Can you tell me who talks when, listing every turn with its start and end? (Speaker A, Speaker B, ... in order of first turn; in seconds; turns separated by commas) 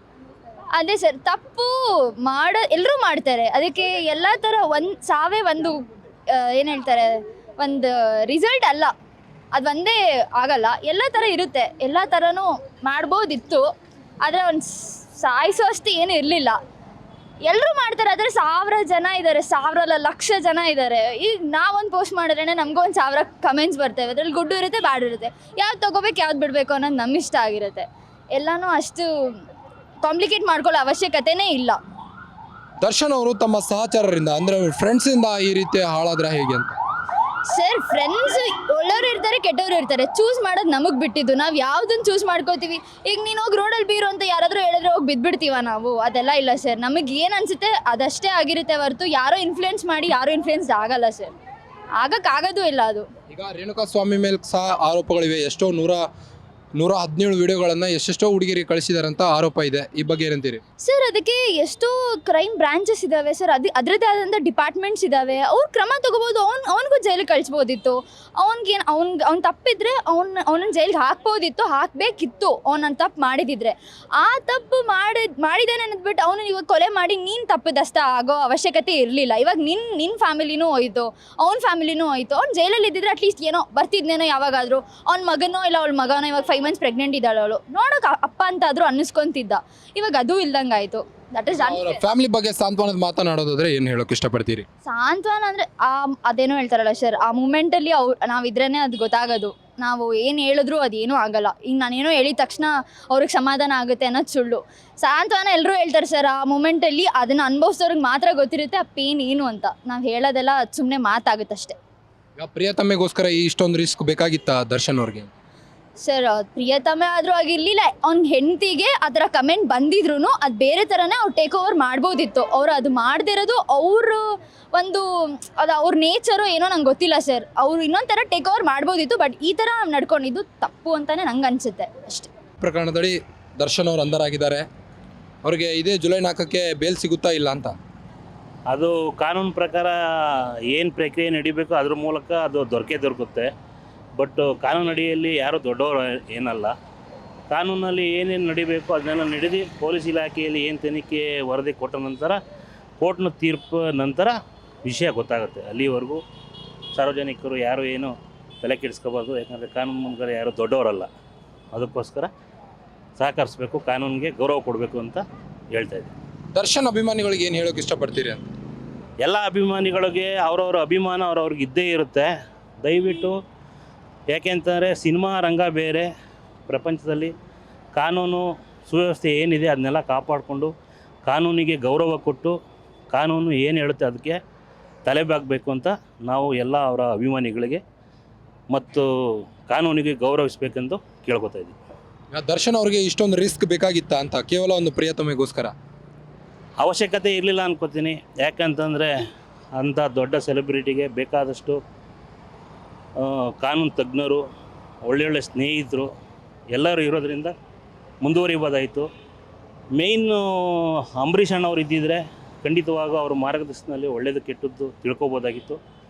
Speaker A: 0.7-8.9, Speaker A: 9.5-13.7, Speaker A: 14.2-16.6, Speaker A: 17.4-29.4, Speaker A: 30.0-31.8, Speaker B: 32.8-36.7, Speaker A: 37.5-51.3, Speaker A: 52.0-53.0, Speaker B: 53.3-56.0, Speaker B: 56.8-60.6, Speaker A: 60.8-92.0, Speaker B: 91.5-94.7, Speaker A: 94.8-111.8, Speaker B: 112.4-115.3, Speaker A: 116.0-132.3, Speaker B: 132.6-134.6, Speaker B: 135.4-137.7, Speaker C: 138.7-140.0, Speaker C: 140.7-143.5, Speaker C: 144.2-146.7, Speaker C: 147.5-152.4, Speaker C: 153.0-156.2, Speaker C: 156.9-161.1, Speaker C: 161.7-162.3, Speaker C: 163.2-166.1, Speaker B: 166.5-168.4, Speaker C: 169.2-172.3, Speaker C: 172.8-173.4, Speaker C: 174.3-176.1, Speaker C: 176.7-177.3, Speaker C: 177.9-180.7, Speaker C: 181.3-182.6, Speaker C: 183.1-184.4, Speaker C: 185.1-187.8, Speaker C: 188.7-189.1, Speaker C: 189.7-191.8, Speaker B: 192.3-195.7, Speaker C: 196.8-199.1, Speaker C: 199.8-201.8, Speaker C: 203.2-204.4, Speaker C: 205.0-206.1, Speaker C: 206.7-207.6, Speaker C: 208.2-209.1, Speaker C: 209.9-215.8